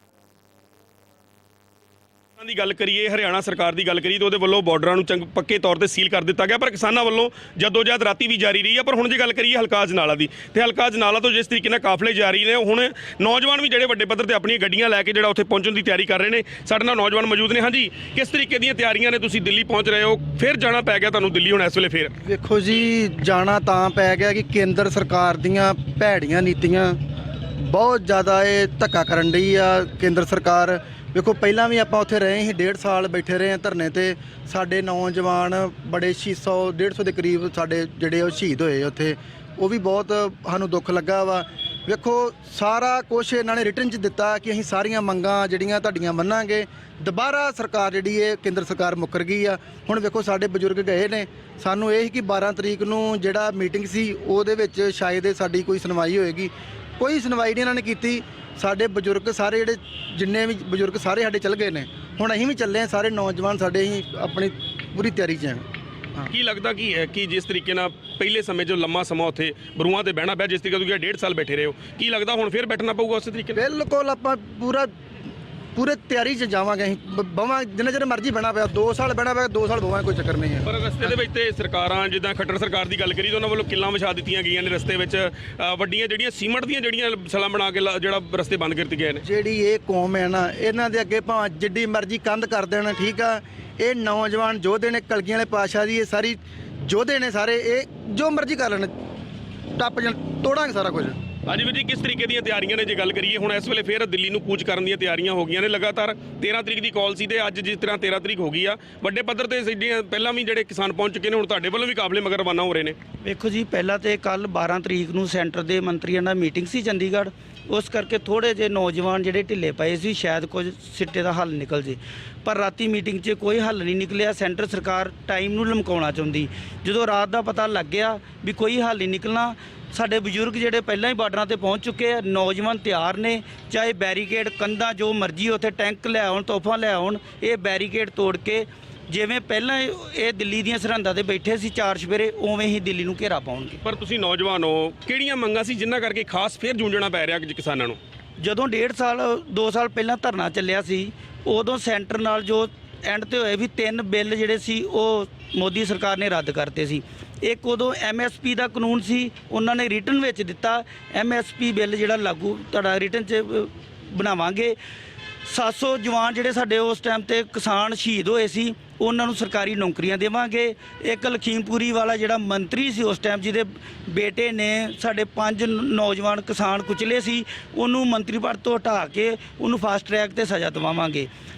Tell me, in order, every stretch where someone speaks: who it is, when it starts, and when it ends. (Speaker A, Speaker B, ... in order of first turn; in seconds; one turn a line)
Speaker A: 2.4-22.1
Speaker B: 22.2-27.0
Speaker B: 27.6-66.3
Speaker A: 66.3-73.6
Speaker B: 73.5-74.9
Speaker B: 75.7-81.1
Speaker A: 80.7-89.2
Speaker B: 89.2-98.9
Speaker B: 99.7-101.2
Speaker A: 101.5-113.0
Speaker C: 113.2-143.8
Speaker A: 143.8-148.0
Speaker C: 148.4-164.8
Speaker C: 165.4-181.3